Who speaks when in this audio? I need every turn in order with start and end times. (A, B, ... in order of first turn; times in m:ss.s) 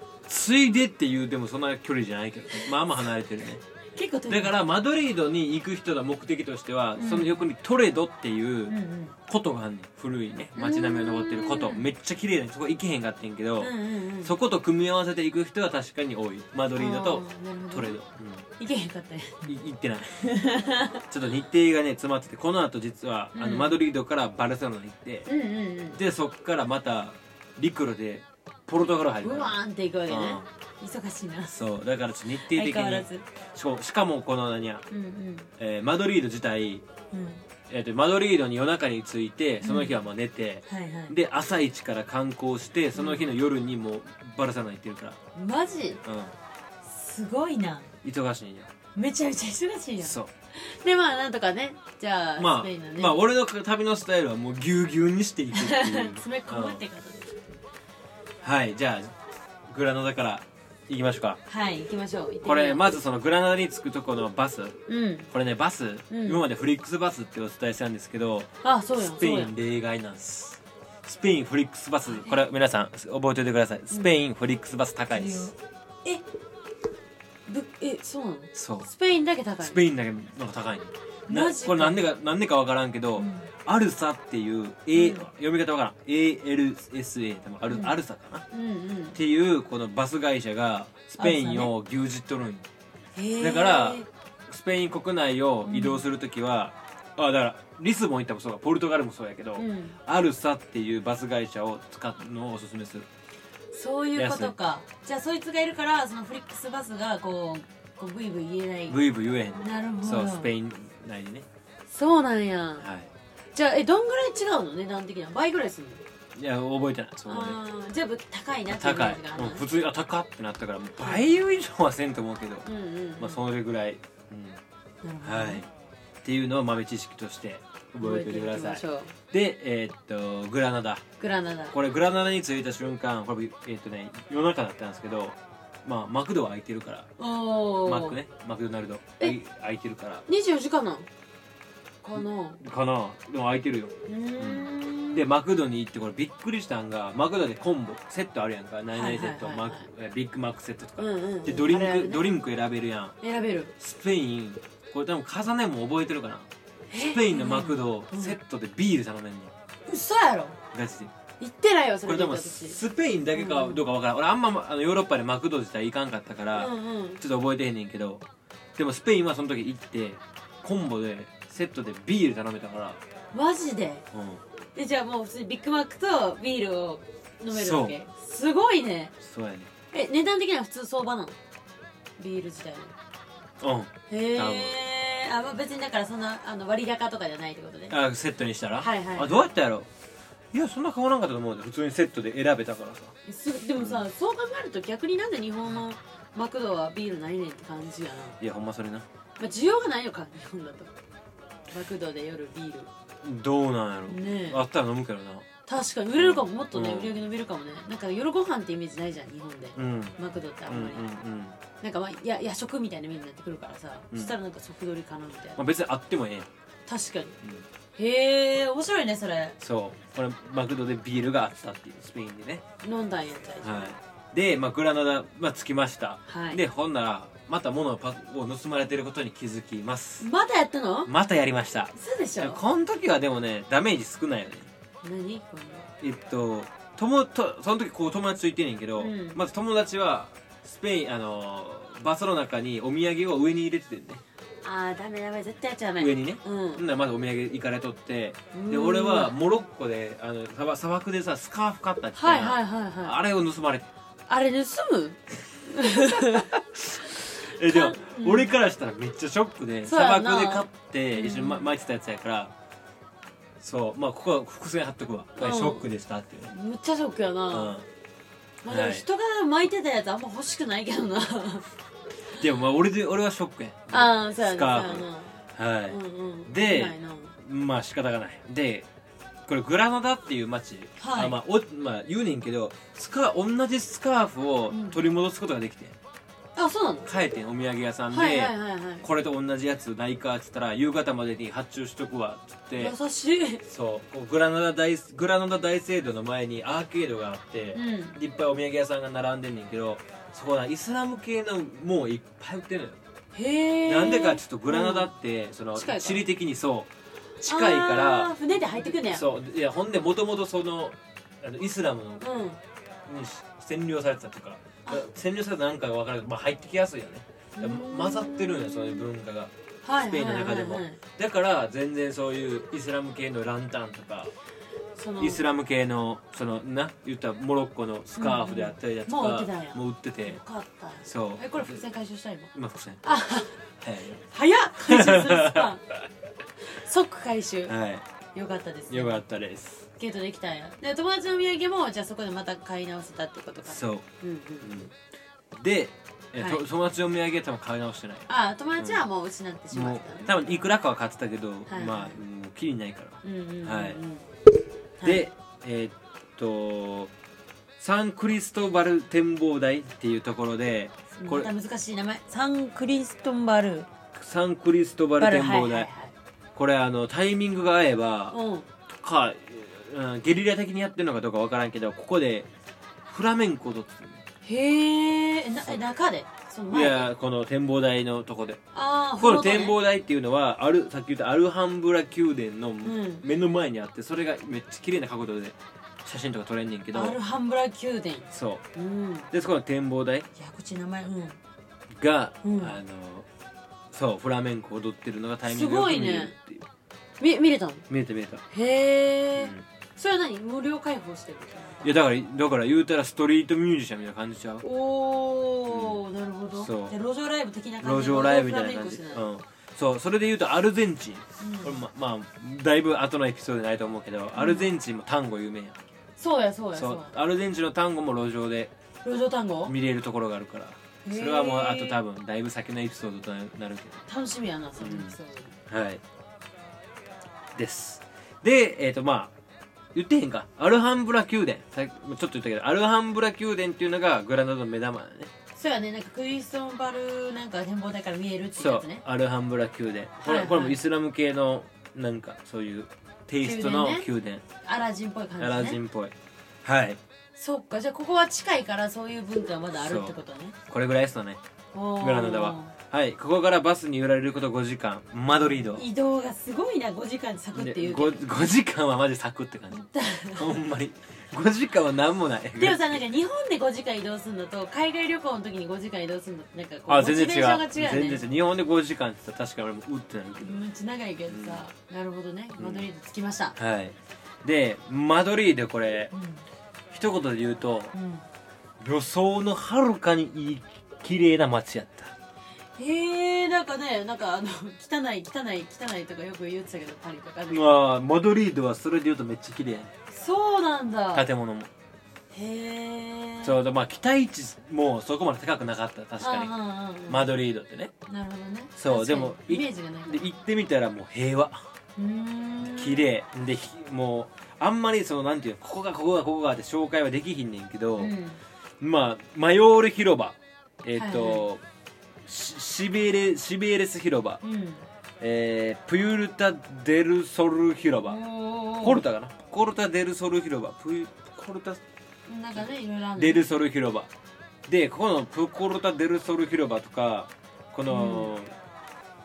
0:00.3-0:03.6 A
0:03.9-0:04.5 B
0:04.3-0:08.8 A
0:07.0-0:07.4 B
0:08.7-0:09.2 B
0:09.3-0:18.4 A
0:10.6-0:11.9 B
0:13.6-0:14.3 B
0:16.8-0:17.9 B
0:18.6-0:19.4 B
0:19.4-0:20.3 A
0:20.2-0:21.0 B
0:21.1-0:25.3 A
0:23.3-0:23.8 B
0:25.3-0:26.0 B
0:26.0-0:30.4 A
0:29.2-0:31.5 B
0:31.5-0:34.8 A
0:32.3-0:33.2 B
0:34.9-0:35.5 B
0:35.6-0:36.8 A
0:37.1-0:37.4 B
0:37.7-0:45.2 A
0:39.6-0:40.0 B
0:40.7-0:41.1 B
0:42.9-0:43.3 B
0:45.3-0:46.0 B
0:46.0-0:46.3 A
0:46.8-0:47.9 B
0:48.0-0:48.7 A
0:48.9-0:53.2 B
0:50.0-0:50.3 A
0:52.4-0:56.8 A
0:55.5-0:57.4 B
0:58.4-0:59.1 A
0:59.7-1:01.4 A
1:01.5-1:02.8 B
1:02.4-1:04.8 A
1:04.9-1:05.3 B
1:05.3-1:15.5 A
1:06.1-1:06.4 B
1:08.6-1:09.5 B
1:12.0-1:12.4 B
1:15.1-1:16.2 B
1:17.4-1:19.9 B
1:18.5-1:18.9 A
1:19.6-1:28.4 A
1:21.3-1:22.0 B
1:23.2-1:23.5 B
1:24.9-1:25.2 B
1:27.7-1:28.0 B
1:28.5-1:29.2 B
1:29.1-1:32.6 A
1:31.2-1:31.7 B
1:33.1-1:34.1 B
1:33.4-1:43.1 A
1:35.6-1:36.0 B
1:39.6-1:40.0 B
1:43.7-1:49.0 B
1:44.1-1:44.5 A
1:48.9-1:51.4 A
1:49.5-1:50.5 B
1:51.9-1:52.8 B
1:52.8-1:53.1 A
1:53.5-1:56.0 B
1:56.3-1:57.6 A
1:57.2-1:59.6 B
1:58.7-2:04.6 A
2:01.0-2:01.3 B
2:02.6-2:03.4 B
2:05.0-2:05.6 B
2:05.2-2:05.7 A
2:06.2-2:11.0 A
2:08.0-2:09.1 B
2:11.2-2:11.7 B
2:11.7-2:17.1 A
2:17.2-2:18.2 B
2:17.8-2:20.2 A
2:20.3-2:21.1 B
2:22.0-2:22.6 B
2:22.2-2:33.1 A
2:24.0-2:25.2 B
2:28.9-2:29.9 B
2:31.0-2:32.4 B
2:33.2-2:33.7 B
2:33.8-2:39.5 A
2:36.9-2:38.4 B
2:39.9-2:40.6 B
2:40.7-2:41.1 A
2:41.4-2:42.8 B
2:42.0-2:48.2 A
2:43.3-2:43.8 B
2:46.5-2:47.2 B
2:48.8-2:53.0 A
2:53.3-2:54.0 B
2:54.1-2:54.4 A
2:54.7-2:59.1 B
2:57.5-2:58.0 A
2:59.2-2:59.7 A
2:59.9-3:01.4 B
3:02.2-3:02.9 B
3:03.6-3:04.8 A
3:04.1-3:08.0 B
3:07.9-3:09.9 A
3:08.8-3:09.5 B
3:10.5-3:13.1 A
3:13.2-3:18.4 B
3:13.8-3:14.0 A
3:18.4-3:19.1 A
3:19.4-3:20.9 B
3:21.7-3:22.9 B
3:23.2-3:25.4 A
3:24.1-3:24.6 B
3:25.6-3:31.0 B
3:26.2-3:27.2 A
3:29.8-3:31.6 A
3:31.8-3:35.6 B
3:35.6-3:36.5 A
3:36.8-3:37.4 B
3:38.0-3:39.6 B
3:39.6-3:42.6 A
3:42.8-3:43.9 B
3:43.6-3:50.3 A
3:46.3-3:46.6 B
3:50.2-3:51.1 B
3:51.0-3:54.7 A
3:51.9-3:52.6 B
3:55.0-3:55.9 B
3:56.0-4:04.2 A
3:59.0-3:59.4 B
4:04.6-4:06.8 B
4:06.0-4:13.9 A
4:08.5-4:09.3 B
4:12.2-4:13.1 B
4:14.3-4:16.5 B
4:15.9-4:22.5 A
4:17.1-4:18.5 B
4:19.8-4:21.7 B
4:23.6-4:26.5 A
4:25.4-4:25.8 B
4:26.5-4:27.8 B
4:27.5-4:27.8 A
4:28.6-4:31.6 B
4:28.7-4:29.0 A
4:32.4-4:38.9 A
4:33.9-4:37.3 B
4:39.5-4:46.0 A
4:41.0-4:41.4 B
4:44.7-4:45.0 B
4:46.5-4:47.1 B
4:47.0-4:52.9 A
4:48.1-4:49.0 B
4:52.8-4:53.6 B
4:53.6-5:03.0 A
4:57.7-4:58.2 B
5:03.3-5:05.1 B
5:03.8-5:06.9 A
5:05.7-5:06.2 B
5:07.4-5:08.3 A
5:07.4-5:09.3 B
5:08.8-5:12.2 A
5:12.2-5:12.6 B
5:13.0-5:24.3 A
5:17.6-5:19.0 B
5:19.8-5:21.0 B
5:25.0-5:25.4 B
5:25.2-5:30.4 A
5:28.2-5:32.5 B
5:31.0-5:31.8 A
5:32.5-5:33.0 A
5:33.0-5:33.6 B
5:33.8-5:34.2 A
5:34.2-5:35.8 B
5:34.8-5:35.7 A
5:36.6-5:37.7 B
5:37.7-5:38.0 A
5:38.3-5:39.2 B
5:38.9-5:39.8 A
5:39.9-5:44.7 B
5:43.6-5:44.1 A
5:44.6-5:44.9 A
5:45.5-5:49.0 A
5:46.4-5:46.6 B
5:48.3-5:50.6 B
5:49.7-5:54.0 A
5:51.7-5:52.2 B
5:53.2-5:54.3 B
5:55.0-5:55.2 B
5:55.0-5:57.1 A
5:57.8-6:01.5 A
6:01.2-6:03.9 B
6:04.1-6:05.9 A
6:05.2-6:06.1 B
6:06.5-6:08.4 A
6:08.3-6:08.7 B
6:08.9-6:12.5 A
6:13.1-6:14.2 A
6:14.4-6:17.1 B
6:16.7-6:18.6 A
6:18.7-6:19.8 B
6:19.2-6:27.2 A
6:22.8-6:23.2 B
6:26.9-6:29.3 B
6:28.3-6:28.6 A
6:29.3-6:30.3 A
6:30.3-6:31.4 B
6:31.9-6:33.3 A
6:32.4-6:32.8 B
6:33.9-6:36.6 A
6:35.4-6:36.3 B
6:37.2-6:37.8 B
6:37.9-6:38.4 A
6:38.5-6:42.0 B
6:39.4-6:39.6 A
6:41.8-6:44.6 A
6:44.6-6:49.2 B
6:45.7-6:46.0 A
6:46.5-6:46.9 A
6:47.8-6:55.8 A
6:51.4-6:51.8 B
6:54.3-6:54.7 B
6:56.2-6:57.1 B
6:56.7-6:58.7 A
6:59.0-6:59.7 B
6:59.6-7:04.0 A
7:01.0-7:02.0 B
7:04.1-7:05.5 B
7:04.8-7:05.2 A
7:05.7-7:06.0 A
7:07.5-7:09.3 A
7:09.9-7:15.3 A
7:15.5-7:19.0 B
7:18.5-7:24.4 A
7:20.2-7:20.8 B
7:23.4-7:24.1 B
7:24.6-7:25.8 B
7:25.4-7:27.0 A
7:27.3-7:30.5 B
7:29.7-7:30.1 A
7:30.7-7:31.4 A
7:31.7-7:32.7 B
7:32.0-7:35.8 A
7:35.4-7:38.5 B
7:37.5-7:43.0 A
7:39.7-7:40.6 B
7:42.6-7:48.2 B
7:46.9-7:50.6 A
7:50.4-7:53.5 B
7:51.3-7:51.6 A
7:52.6-7:52.9 A
7:53.6-7:56.1 A
7:56.1-7:56.4 B
7:56.9-7:57.9 A
7:57.9-7:58.2 B
7:58.8-8:02.1 A
8:02.8-8:07.7 B
8:07.5-8:09.9 A
8:10.1-8:11.2 B
8:11.1-8:11.7 A
8:12.3-8:13.6 B
8:13.4-8:16.5 A
8:16.2-8:17.3 B
8:17.1-8:17.9 A
8:18.1-8:20.3 B
8:18.8-8:21.6 A
8:22.0-8:23.1 B
8:22.6-8:28.1 A
8:28.0-8:28.4 B
8:28.8-8:31.6 A
8:31.0-8:31.4 B
8:32.2-8:34.4 A
8:34.4-8:34.8 B
8:35.2-8:38.2 A
8:38.0-8:39.0 B
8:38.8-8:41.8 A
8:42.3-8:43.4 B
8:42.5-8:44.1 A
8:44.7-8:48.5 A
8:47.9-8:48.3 B